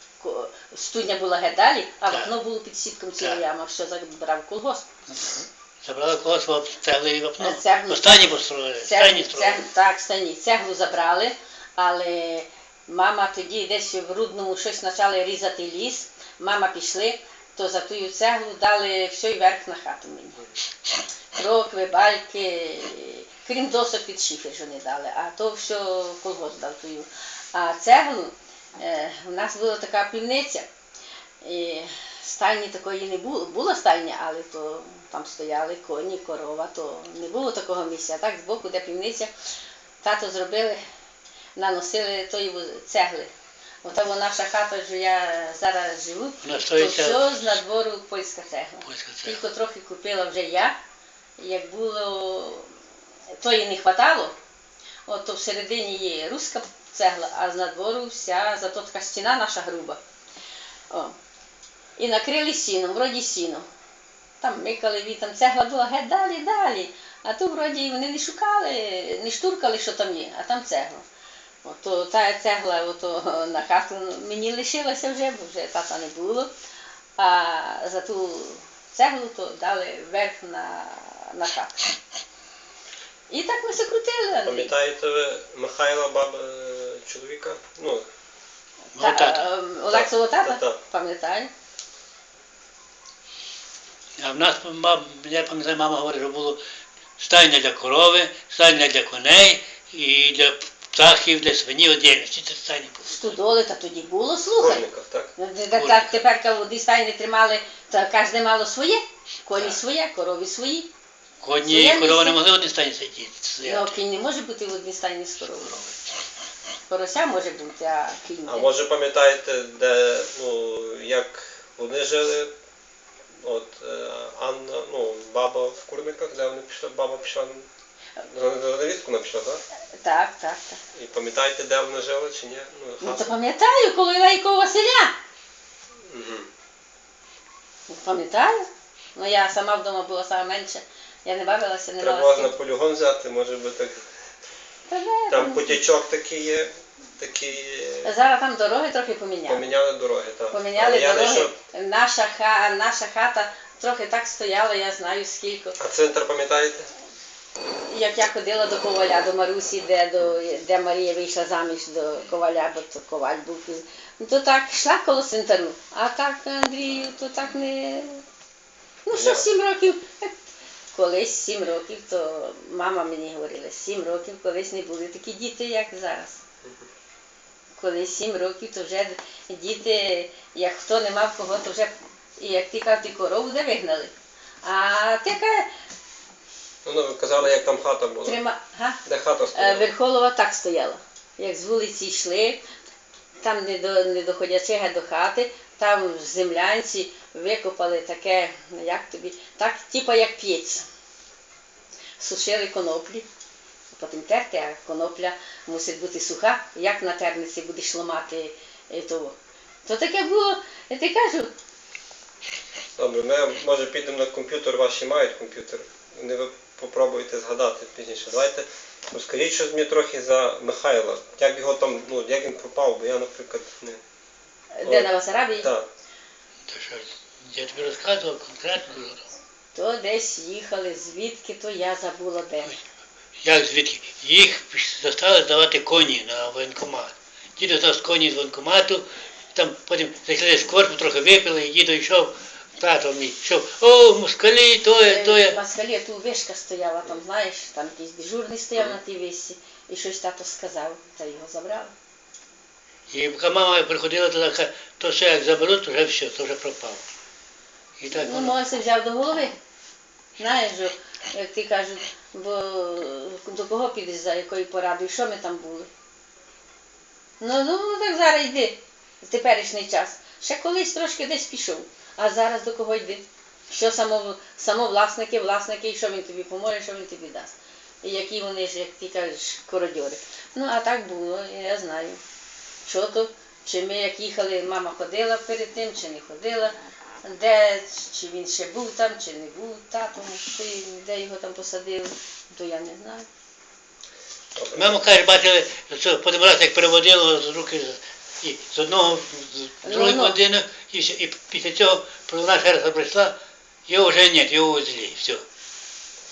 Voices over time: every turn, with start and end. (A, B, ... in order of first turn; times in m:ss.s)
0:00.2-0:04.9 A
0:05.1-0:09.6 B
0:07.4-0:20.4 A
0:21.3-0:30.7 A
0:31.4-0:39.3 A
0:40.0-0:40.8 A
0:41.6-0:43.3 A
0:43.8-0:50.7 A
0:46.4-0:47.5 B
0:48.8-0:49.4 B
0:51.4-0:52.7 A
0:53.4-0:54.3 A
0:55.1-1:00.0 A
1:00.9-1:01.2 A
1:02.0-1:03.7 A
1:04.4-1:11.0 A
1:11.6-1:16.5 A
1:17.2-1:21.8 A
1:23.3-1:24.7 A
1:24.3-1:28.0 C
1:28.9-1:31.5 A
1:29.0-1:29.5 B
1:29.9-1:30.8 C
1:34.2-1:36.6 B
1:37.2-1:43.4 B
1:43.0-1:44.8 A
1:44.6-1:45.3 C
1:45.4-1:50.9 A
1:45.7-1:46.1 B
1:51.4-1:54.0 B
1:51.6-1:52.4 A
1:53.6-1:55.7 A
1:55.6-1:56.0 B
1:56.9-1:58.7 A
1:58.5-2:02.5 C
2:03.4-2:07.7 C
2:08.2-2:09.6 C
2:10.0-2:10.8 A
2:10.9-2:13.3 C
2:13.0-2:15.1 A
2:16.0-2:16.5 C
2:17.9-2:22.5 A
2:22.0-2:24.0 C
2:24.9-2:25.8 A
2:25.3-2:28.1 C
2:28.0-2:29.7 A
2:29.4-2:31.6 C
2:30.5-2:35.8 A
2:35.8-2:36.9 C
2:37.9-2:48.2 A
2:49.0-2:50.4 A
2:49.1-2:49.4 C
2:50.9-2:56.4 A
2:57.8-3:04.1 A
3:04.6-3:05.7 A
3:06.8-3:08.4 C
3:08.2-3:09.0 A
3:09.0-3:09.9 C
3:09.5-3:12.6 A
3:13.4-3:20.8 A
3:22.2-3:23.3 A
3:23.9-3:31.5 A
3:33.0-3:44.0 C
3:44.7-3:45.7 A
3:44.8-3:45.9 C
3:46.7-3:49.2 B
3:49.7-3:52.8 A
3:53.4-4:05.6 B
4:05.0-4:11.9 A
4:13.1-4:17.0 B
4:18.0-4:18.6 B
4:18.1-4:19.5 A
4:20.4-4:25.9 A
4:27.4-4:42.2 A
4:42.8-4:53.3 A
4:54.6-4:55.0 C
4:54.7-5:03.3 B
4:59.8-5:00.4 A
5:03.9-5:05.4 B